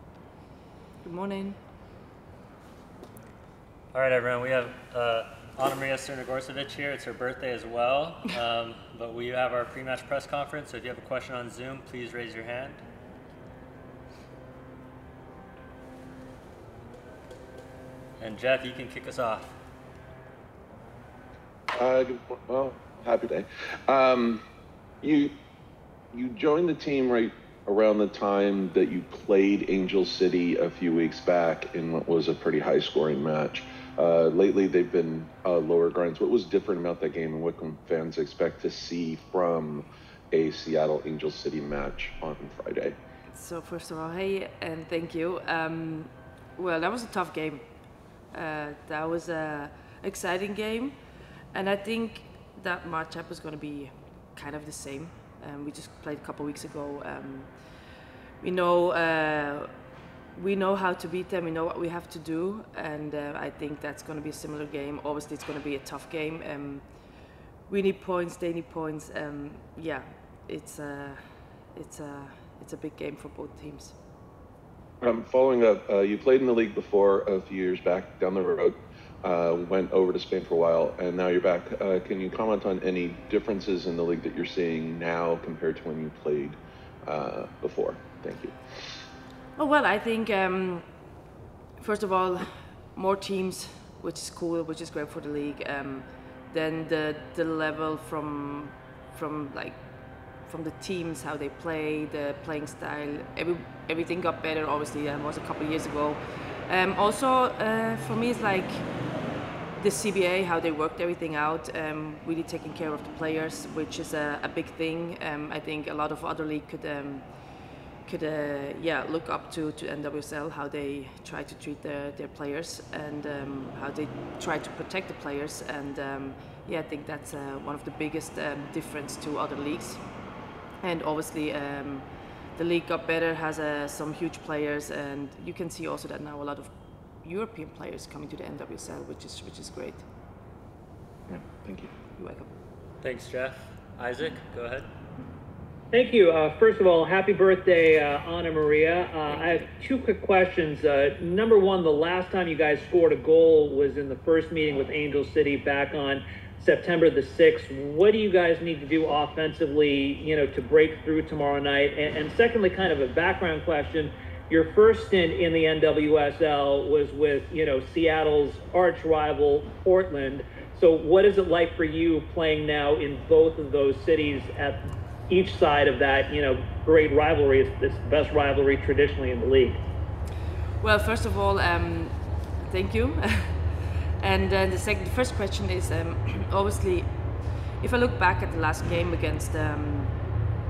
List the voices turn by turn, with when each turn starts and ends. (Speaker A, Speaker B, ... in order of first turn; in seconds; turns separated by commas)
Speaker A: 1.0-1.6, Speaker B: 3.9-12.8, Speaker B: 18.2-19.5, Speaker C: 21.8-24.4, Speaker C: 25.0-25.3, Speaker C: 26.1-43.0, Speaker A: 43.3-47.6, Speaker A: 48.3-51.0, Speaker A: 51.5-57.6, Speaker A: 58.4-59.8, Speaker A: 60.3-66.8, Speaker A: 67.7-71.2, Speaker A: 71.7-74.0, Speaker C: 75.0-88.5, Speaker A: 89.6-90.9, Speaker A: 91.8-108.9, Speaker A: 109.8-117.3, Speaker A: 118.0-130.0, Speaker A: 130.8-136.7, Speaker A: 137.2-140.1, Speaker C: 141.3-141.9, Speaker A: 142.2-142.5, Speaker B: 143.0-144.9, Speaker D: 145.9-179.8, Speaker A: 180.8-190.2